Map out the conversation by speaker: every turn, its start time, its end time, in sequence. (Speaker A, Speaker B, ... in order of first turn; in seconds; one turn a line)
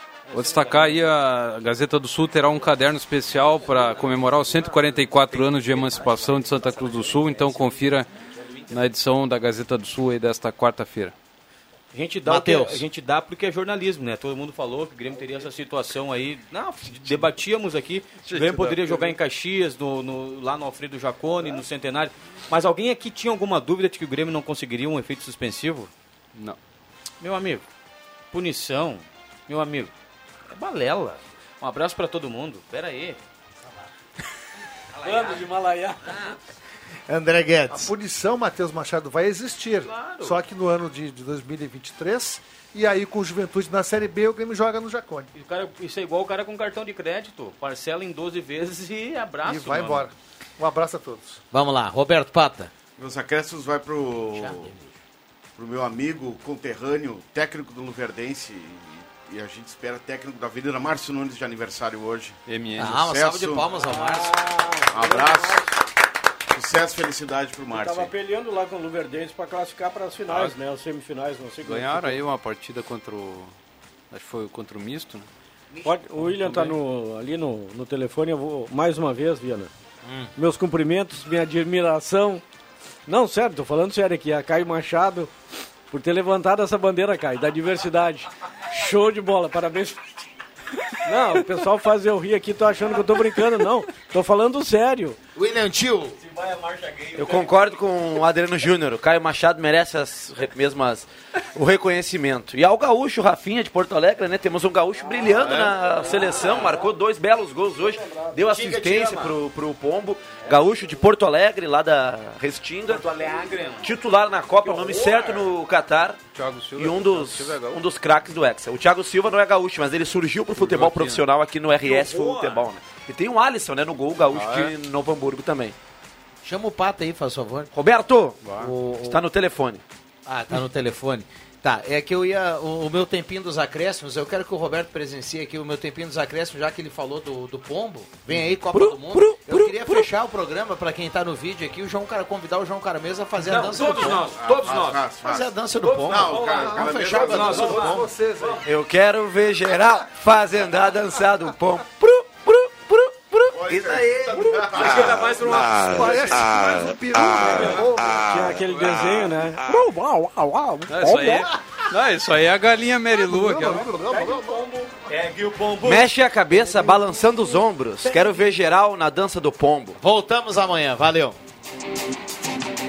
Speaker A: 0.3-1.1
Speaker B: 0.3-8.1
Speaker B: 8.7-11.1
Speaker A: 11.9-25.9
Speaker C: 12.2-12.8
Speaker B: 18.3-19.1
Speaker A: 27.2-27.7
Speaker A: 28.3-29.9
Speaker A: 30.5-33.2
Speaker A: 35.0-35.5
Speaker D: 35.0-36.0
Speaker A: 36.1-36.3
Speaker C: 37.1-37.9
Speaker E: 37.7-45.3
Speaker A: 39.8-40.4
Speaker A: 45.4-50.1
Speaker E: 49.4-51.4
Speaker C: 51.5-52.7
Speaker F: 53.0-54.7
Speaker C: 54.3-54.9
Speaker F: 55.6-63.6
Speaker B: 62.5-63.0
Speaker C: 62.8-64.4
Speaker D: 63.8-65.7
Speaker F: 64.9-65.8
Speaker F: 66.5-68.1
Speaker D: 67.7-72.2
Speaker B: 70.3-70.5
Speaker B: 71.6-73.5
Speaker B: 74.1-75.3
Speaker A: 75.7-76.8
Speaker D: 75.8-79.7
Speaker C: 80.0-80.3
Speaker D: 80.4-82.4
Speaker D: 83.1-85.3
Speaker D: 85.9-90.0
Speaker D: 91.0-95.2
Speaker C: 95.3-96.2
Speaker A: 96.2-97.8
Speaker G: 97.2-113.1
Speaker D: 104.9-106.9
Speaker A: 105.4-106.8
Speaker D: 107.8-108.4
Speaker A: 108.5-109.4
Speaker A: 112.9-114.0
Speaker G: 113.8-116.2
Speaker A: 114.6-115.5
Speaker B: 116.3-117.8
Speaker G: 116.7-125.8
Speaker B: 120.5-121.2
Speaker A: 121.8-122.7
Speaker B: 124.3-124.7
Speaker C: 126.4-127.7
Speaker G: 127.7-129.8
Speaker B: 128.4-128.7
Speaker C: 128.6-129.2
Speaker C: 130.3-144.4
Speaker B: 138.3-139.6
Speaker G: 139.3-139.7
Speaker A: 143.4-145.1
Speaker F: 144.3-145.5
Speaker C: 145.2-147.9
Speaker A: 145.8-148.7
Speaker F: 146.0-148.0
Speaker E: 146.6-148.6
Speaker G: 148.6-155.9
Speaker F: 153.5-155.7
Speaker A: 154.3-156.6
Speaker E: 155.8-158.5
Speaker D: 157.4-161.5
Speaker B: 160.9-163.9
Speaker E: 161.1-161.4
Speaker E: 163.1-164.7
Speaker D: 163.6-164.9
Speaker A: 165.1-166.9
Speaker G: 165.8-170.0
Speaker A: 168.1-168.4
Speaker C: 170.0-171.4